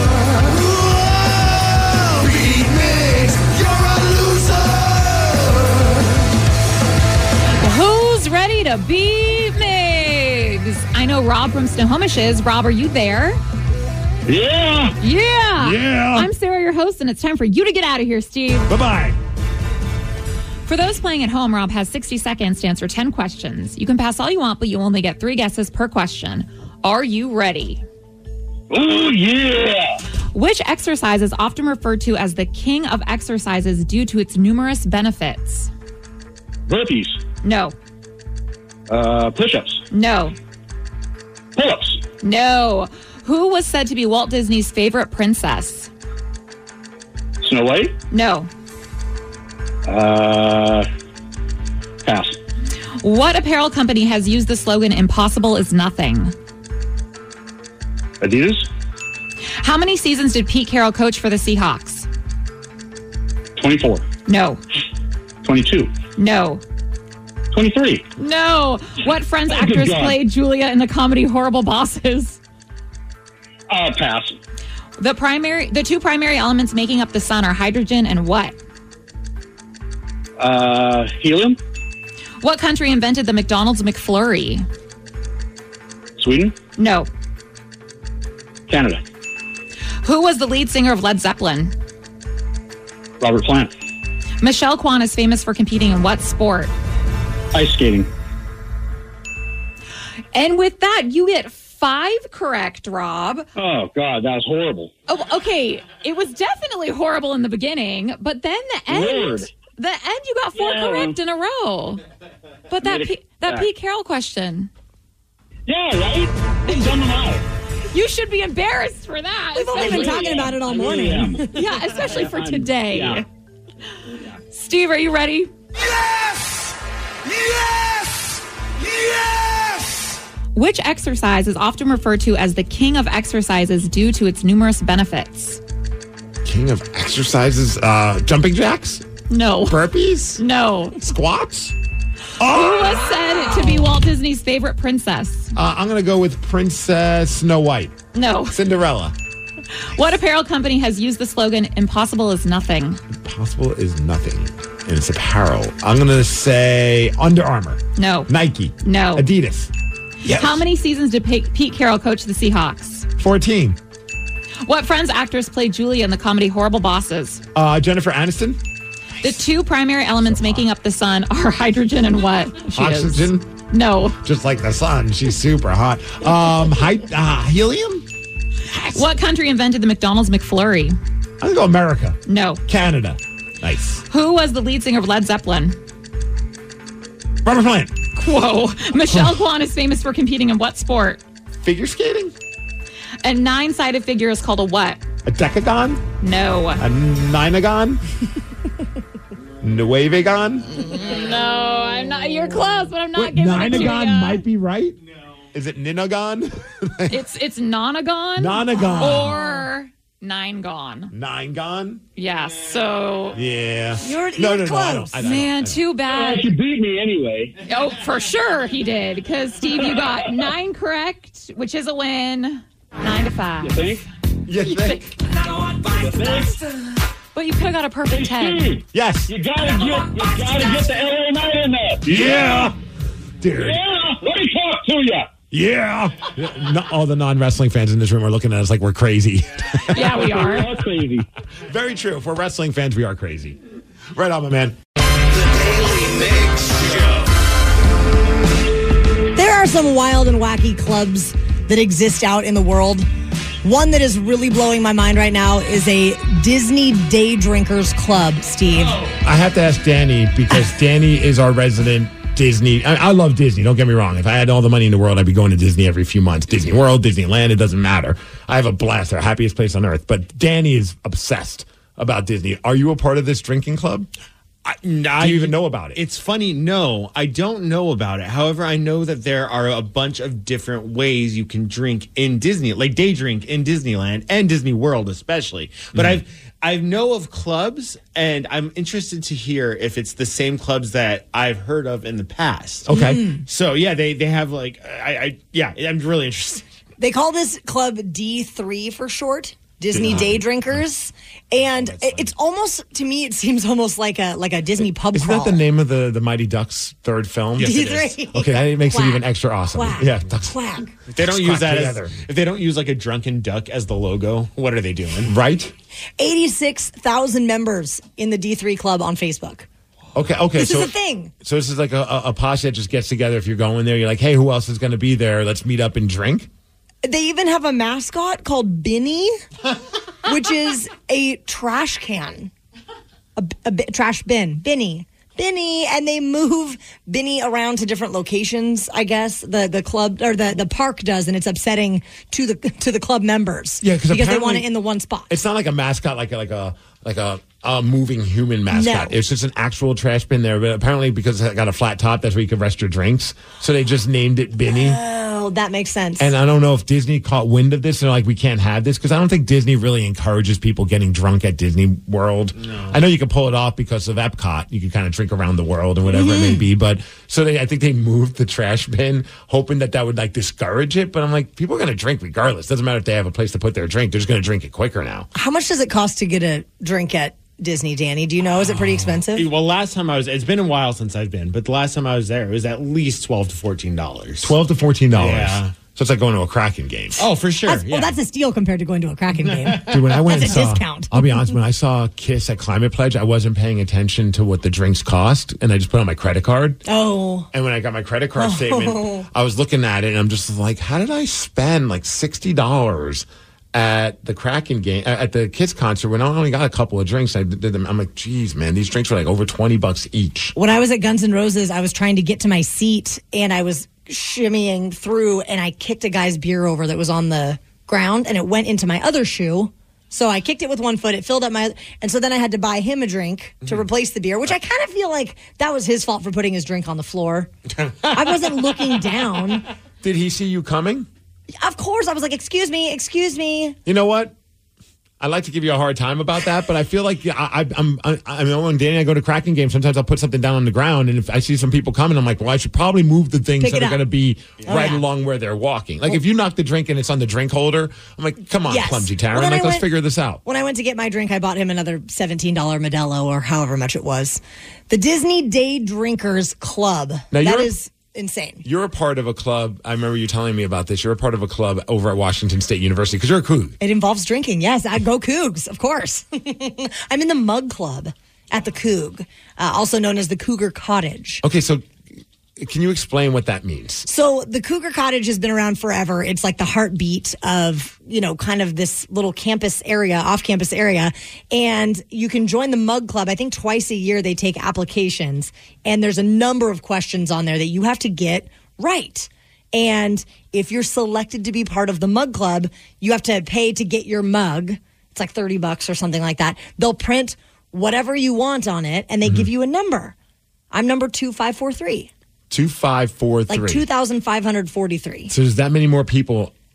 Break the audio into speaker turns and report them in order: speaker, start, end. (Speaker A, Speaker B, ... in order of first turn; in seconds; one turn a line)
Speaker A: 0.3-5.8
Speaker B: 7.6-13.4
Speaker C: 14.3-14.9
Speaker B: 15.0-18.7
Speaker D: 15.6-16.3
Speaker D: 18.7-19.2
Speaker B: 20.6-27.8
Speaker C: 28.7-30.0
Speaker B: 30.3-35.7
Speaker C: 36.7-37.2
Speaker B: 37.4-37.8
Speaker C: 38.9-39.8
Speaker B: 39.9-40.4
Speaker C: 41.5-42.0
Speaker B: 42.2-45.9
Speaker C: 47.4-47.9
Speaker B: 48.1-48.5
Speaker C: 49.9-50.9
Speaker C: 52.0-52.4
Speaker B: 53.0-56.3
Speaker C: 58.2-58.7
Speaker B: 59.6-62.1
Speaker C: 63.5-64.0
Speaker B: 64.2-64.6
Speaker C: 65.4-65.9
Speaker B: 66.2-66.6
Speaker C: 67.5-68.0
Speaker B: 68.2-72.4
Speaker C: 69.5-70.2
Speaker C: 73.7-74.4
Speaker B: 75.0-78.6
Speaker C: 80.4-81.6
Speaker B: 82.4-84.7
Speaker C: 86.2-86.5
Speaker B: 86.8-87.1
Speaker C: 88.7-89.0
Speaker B: 90.0-91.7
Speaker C: 93.2-93.7
Speaker B: 94.4-96.7
Speaker C: 97.5-98.1
Speaker B: 100.3-103.5
Speaker C: 103.5-104.9
Speaker B: 105.1-112.0
Speaker C: 108.9-109.5
Speaker C: 110.5-111.1
Speaker B: 112.7-114.7
Speaker C: 112.8-113.7
Speaker C: 115.7-117.4
Speaker B: 117.9-120.5
Speaker E: 119.5-121.5
Speaker C: 119.8-123.2
Speaker B: 121.4-123.2
Speaker B: 124.5-125.5
Speaker A: 125.8-126.6
Speaker A: 127.2-128.3
Speaker A: 128.8-130.0
Speaker B: 130.5-135.6
Speaker D: 136.4-139.0
Speaker B: 139.3-139.8
Speaker D: 139.6-140.4
Speaker B: 140.4-141.0
Speaker D: 140.9-141.7
Speaker D: 142.4-143.1
Speaker B: 142.4-145.6
Speaker D: 145.6-147.9
Speaker B: 148.1-148.6
Speaker D: 148.5-149.1
Speaker B: 149.7-153.0
Speaker D: 153.1-159.7
Speaker B: 157.9-158.3
Speaker B: 158.8-159.3
Speaker D: 160.2-160.6
Speaker B: 160.2-163.1
Speaker D: 163.2-163.8
Speaker B: 164.6-167.4
Speaker D: 167.5-168.6
Speaker B: 169.2-174.2
Speaker D: 170.3-170.6
Speaker D: 172.7-173.5
Speaker D: 174.2-178.0
Speaker D: 178.7-179.1
Speaker B: 178.9-180.9
Speaker D: 181.4-184.0
Speaker B: 182.3-182.6
Speaker B: 184.1-185.8
Speaker D: 187.4-187.9
Speaker B: 188.1-191.2
Speaker D: 189.1-189.4
Speaker D: 191.6-192.3
Speaker B: 193.2-195.0
Speaker D: 195.2-196.0
Speaker B: 196.2-196.8
Speaker D: 196.8-198.0
Speaker D: 199.6-200.9
Speaker B: 200.8-204.4
Speaker D: 203.1-205.0
Speaker D: 205.5-207.2
Speaker B: 207.1-211.1
Speaker D: 208.4-209.4
Speaker D: 211.1-212.0
Speaker B: 212.2-213.4
Speaker D: 213.3-215.8
Speaker E: 214.0-215.2
Speaker B: 215.2-216.5
Speaker C: 216.1-217.6
Speaker B: 217.6-223.8
Speaker C: 223.6-224.0
Speaker D: 224.4-225.2
Speaker B: 224.7-226.6
Speaker C: 225.9-226.5
Speaker B: 227.3-228.7
Speaker C: 228.1-232.7
Speaker D: 228.9-229.3
Speaker D: 232.1-232.8
Speaker D: 233.4-233.8
Speaker C: 233.6-235.3
Speaker D: 235.5-240.1
Speaker B: 239.9-240.8
Speaker C: 240.1-241.3
Speaker D: 241.7-243.6
Speaker D: 244.1-244.8
Speaker A: 245.3-247.3
Speaker E: 249.3-253.1
Speaker E: 253.6-259.0
Speaker D: 259.1-274.1
Speaker F: 274.6-292.9
Speaker D: 275.2-276.0
Speaker D: 285.9-286.2
Speaker D: 292.9-293.3
Speaker E: 292.9-293.4
Speaker F: 293.4-296.6
Speaker E: 297.0-305.6
Speaker D: 299.9-300.4
Speaker F: 300.0-300.4
Speaker F: 301.6-302.3
Speaker D: 305.1-310.6
Speaker E: 307.6-310.9
Speaker F: 307.6-307.9
Speaker F: 311.1-315.3
Speaker D: 311.1-312.2
Speaker D: 315.2-315.7
Speaker E: 316.2-319.7
Speaker D: 320.1-326.5
Speaker E: 320.6-321.3
Speaker E: 327.0-329.3
Speaker E: 330.2-332.5
Speaker E: 333.4-345.3
Speaker D: 343.8-344.7
Speaker D: 345.3-355.0
Speaker E: 348.7-349.1
Speaker E: 354.6-356.3
Speaker D: 356.2-375.3
Speaker F: 362.6-362.9
Speaker E: 366.1-366.6
Speaker E: 375.3-379.5
Speaker F: 378.7-384.5
Speaker D: 384.4-387.3
Speaker F: 385.1-385.7
Speaker F: 387.2-388.1
Speaker E: 387.6-391.6
Speaker F: 389.4-390.6
Speaker D: 389.9-396.8
Speaker E: 396.9-397.5
Speaker D: 397.5-410.5
Speaker E: 398.4-399.2
Speaker E: 410.5-427.5
Speaker E: 428.1-429.6
Speaker D: 430.0-431.1
Speaker E: 431.6-433.8
Speaker D: 433.9-434.3
Speaker D: 435.2-450.4
Speaker E: 443.6-444.0
Speaker E: 444.6-445.0
Speaker E: 448.7-449.9
Speaker E: 450.4-458.6
Speaker D: 457.3-457.7
Speaker D: 458.6-463.8
Speaker E: 463.8-471.4
Speaker D: 471.4-471.9
Speaker D: 472.6-474.1
Speaker E: 474.1-500.1
Speaker D: 499.2-499.5
Speaker E: 500.7-502.1
Speaker D: 502.5-503.8
Speaker E: 503.5-505.3
Speaker D: 505.3-506.5